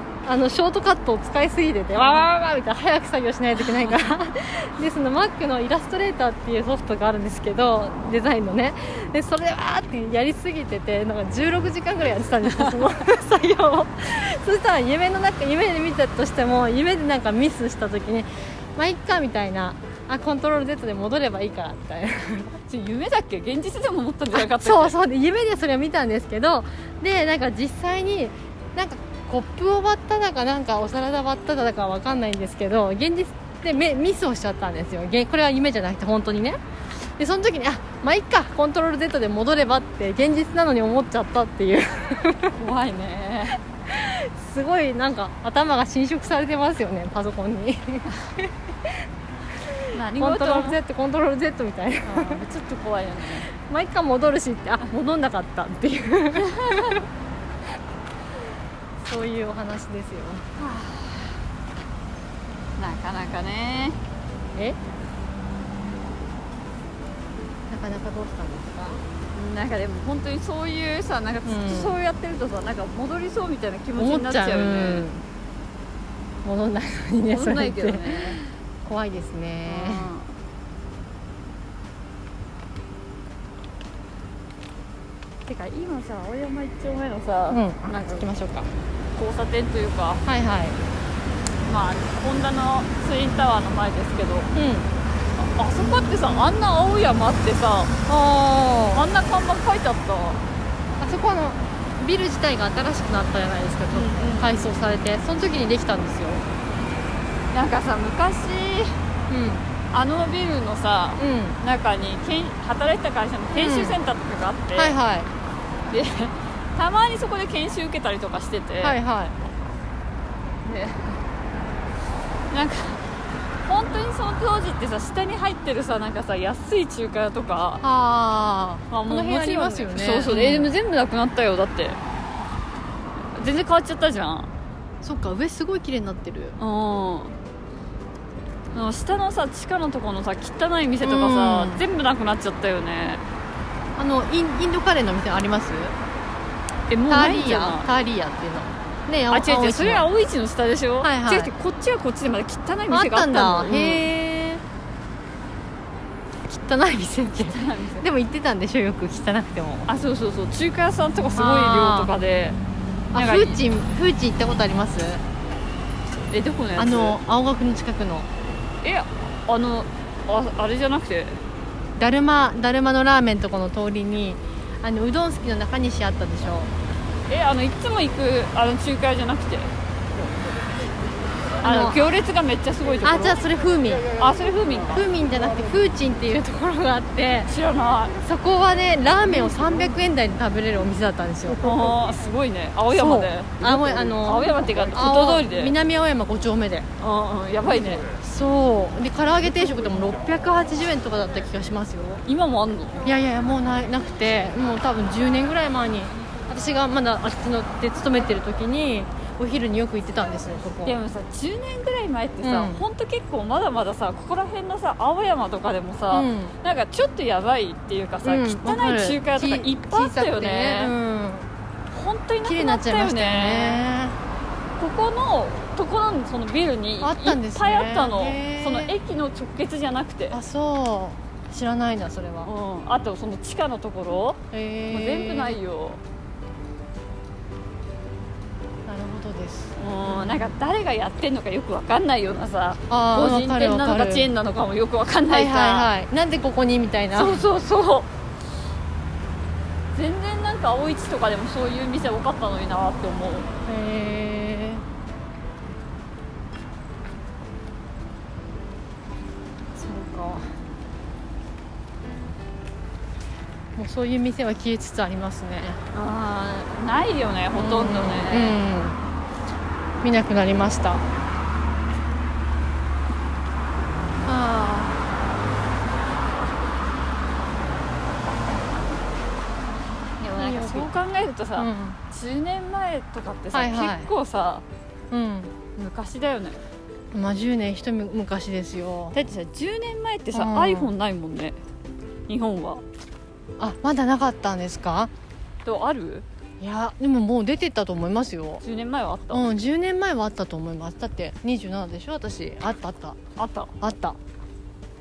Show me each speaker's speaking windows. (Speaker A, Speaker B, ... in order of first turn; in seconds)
Speaker A: 0.2-22.6, 24.3-42.5, 43.9-49.0, 49.6-52.4, 53.5-57.0, 59.0-60.5, 67.7-69.0, 71.5-71.9, 74.0-75.2, 76.4-80.1, 87.5-88.7, 90.2-90.8, 94.5-94.9, 98.1-99.1, 101.0-106.4, 109.3-109.7, 111.2-111.6, 113.5-114.0, 114.8-115.3, 118.8-119.3, 127.8-130.7, 135.0-136.6, 141.0-141.8, 144.0-145.9, 147.1-150.1, 151.0-151.5, 152.9-154.6, 156.5-159.9, 161.3-162.1, 163.1-165.2, 166.8-168.3, 172.0-176.7, 181.6-182.1, 183.0-184.2, 184.9-187.5, 188.2-191.6, 192.9-196.9, 197.9-202.2, 203.0-211.0, 212.4-212.8, 216.1-216.6, 218.2-221.5, 222.4-224.2, 227.0-228.9, 230.3-232.5, 234.5-235.6, 238.8-240.5, 242.9-244.3, 245.3-247.4, 253.7-254.8, 259.7-260.5, 263.8-265.8, 267.5-269.0, 270.0-271.0, 274.2-275.0, 280.4-280.9, 281.6-282.0, 283.5-284.1, 285.1-285.5, 287.1-289.2, 290.3-290.9, 293.6-295.1, 296.6-298.6, 299.3-303.2, 303.8-304.2
Speaker B: 22.7-24.9, 42.5-43.6, 49.9-50.8, 52.0-53.5, 56.4-57.0, 60.6-61.4, 62.8-64.0, 69.3-75.0, 77.3-78.5, 79.7-80.3, 85.5-88.3, 89.2-90.2, 91.6-94.5, 95.4-97.9, 98.9-100.4, 103.9-104.5, 107.5-109.0, 109.9-115.0, 115.9-119.0, 120.6-121.2, 122.5-123.0, 123.7-127.8, 128.9-132.0, 133.3-134.5, 136.6-137.3, 138.7-143.2, 146.9-147.9, 149.3-154.0, 157.4-158.1, 159.9-162.6, 163.1-163.6, 166.3-167.2, 168.8-171.4, 177.3-179.7, 181.6-183.4, 184.2-185.1, 187.5-188.2, 191.6-193.6, 194.2-195.7, 197.0-198.1, 202.3-203.1, 210.8-220.9, 221.9-223.8, 224.8-230.4, 232.4-236.0, 239.8-245.9, 247.1-248.1, 249.9-253.5, 265.9-268.6, 280.2-284.6, 285.8-286.6, 289.1-291.6, 292.3-292.8, 295.6-296.2, 298.6-299.5, 303.4-303.7